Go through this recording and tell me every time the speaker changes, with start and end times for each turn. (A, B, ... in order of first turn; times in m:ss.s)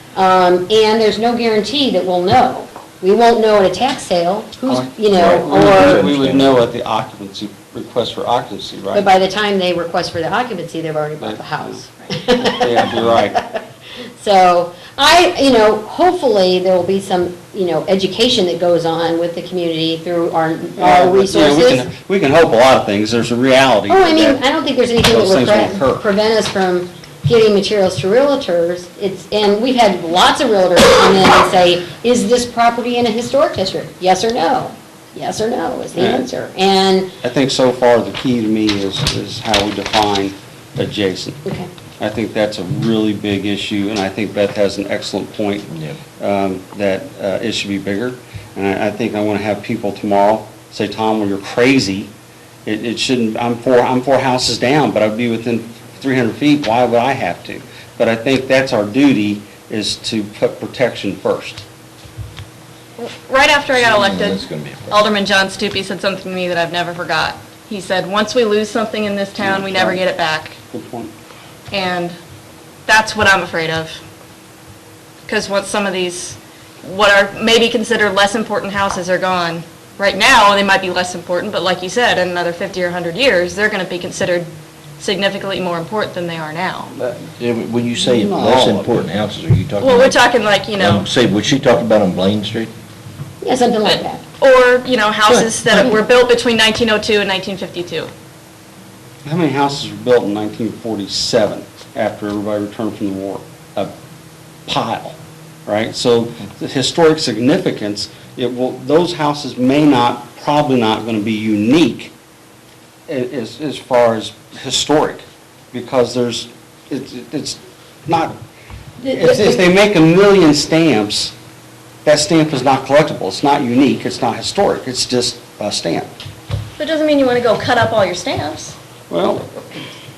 0:00.2-0:06.0 A
0:04.7-0:09.1 B
0:05.2-0:06.6 C
0:08.9-0:13.6 A
0:11.2-0:11.8 B
0:12.5-0:13.4 B
0:14.2-0:21.9 A
0:20.8-0:24.4 B
0:23.9-0:37.1 A
0:25.0-0:26.0 B
0:36.0-0:36.3 B
0:37.2-0:41.4 B
0:42.0-0:52.1 B
0:45.7-0:46.0 C
0:52.7-1:01.6 B
1:03.0-1:10.6 D
1:03.8-1:05.1 C
1:09.4-1:10.0 B
1:10.7-1:11.1 B
1:11.7-1:12.2 D
1:12.9-1:14.0 D
1:15.3-1:24.5 D
1:25.0-1:26.9 D
1:27.4-1:30.2 C
1:28.0-1:29.0 B
1:29.8-1:31.1 D
1:30.8-1:32.7 C
1:33.4-1:34.2 A
1:33.8-1:38.1 D
1:35.3-1:35.9 A
1:39.2-1:43.9 B
1:44.7-1:52.1 B
1:53.1-1:58.4 B
1:59.0-1:59.6 A
1:59.1-2:01.3 B
2:02.0-2:06.1 B
2:06.8-2:08.8 D
2:09.1-2:09.5 B